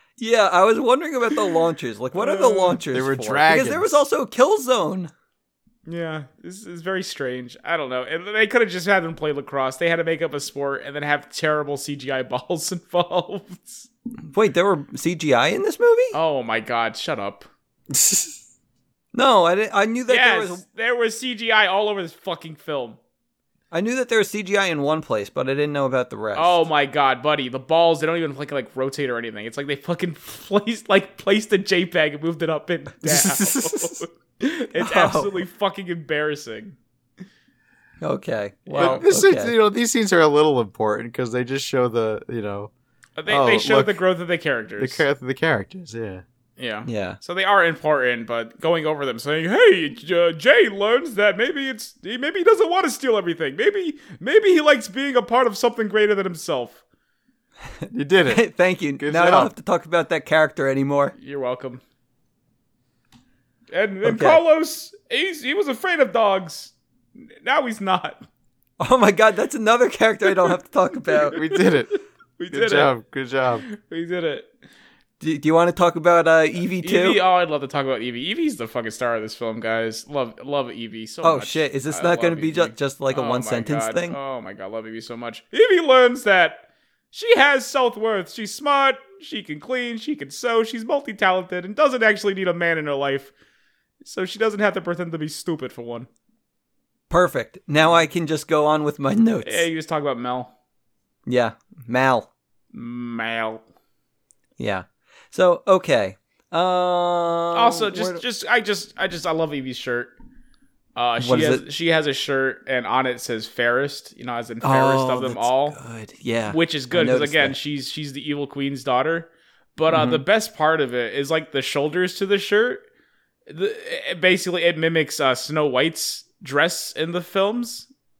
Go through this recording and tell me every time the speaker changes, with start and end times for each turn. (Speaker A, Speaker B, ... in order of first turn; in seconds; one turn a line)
Speaker A: 0.2-5.1
Speaker B: 2.2-2.8
Speaker C: 2.9-4.0
Speaker B: 5.9-13.9
Speaker A: 14.3-16.2
Speaker B: 16.1-17.5
Speaker C: 17.9-18.4
Speaker A: 19.1-20.6
Speaker B: 20.1-23.0
Speaker A: 23.7-26.6
Speaker B: 26.4-36.8
Speaker C: 33.0-34.0
Speaker A: 34.8-35.4
Speaker A: 38.0-39.5
Speaker B: 38.7-39.0
Speaker C: 38.7-42.7
Speaker B: 43.2-45.0
Speaker C: 43.3-44.0
Speaker C: 44.8-46.2
Speaker B: 46.6-56.8
Speaker A: 46.9-47.2
Speaker C: 57.9-59.5
Speaker A: 58.3-61.1
Speaker B: 61.1-61.8
Speaker B: 63.7-68.2
Speaker A: 64.0-64.4
Speaker A: 68.8-71.4
Speaker B: 71.3-71.6
Speaker C: 71.3-72.0
Speaker B: 72.4-72.9
Speaker C: 72.5-73.7
Speaker B: 73.7-74.5
Speaker A: 75.2-77.2
Speaker B: 76.8-93.3
Speaker A: 81.2-84.2
Speaker B: 94.0-96.1
Speaker A: 97.1-99.7
Speaker B: 99.4-100.5
Speaker A: 101.3-102.3
Speaker B: 102.7-103.6
Speaker A: 104.6-108.2
Speaker B: 107.5-110.1
Speaker B: 111.0-115.8
Speaker A: 111.2-111.6
Speaker A: 114.6-117.6
Speaker B: 116.5-122.8
Speaker A: 119.9-120.2
Speaker B: 123.5-127.9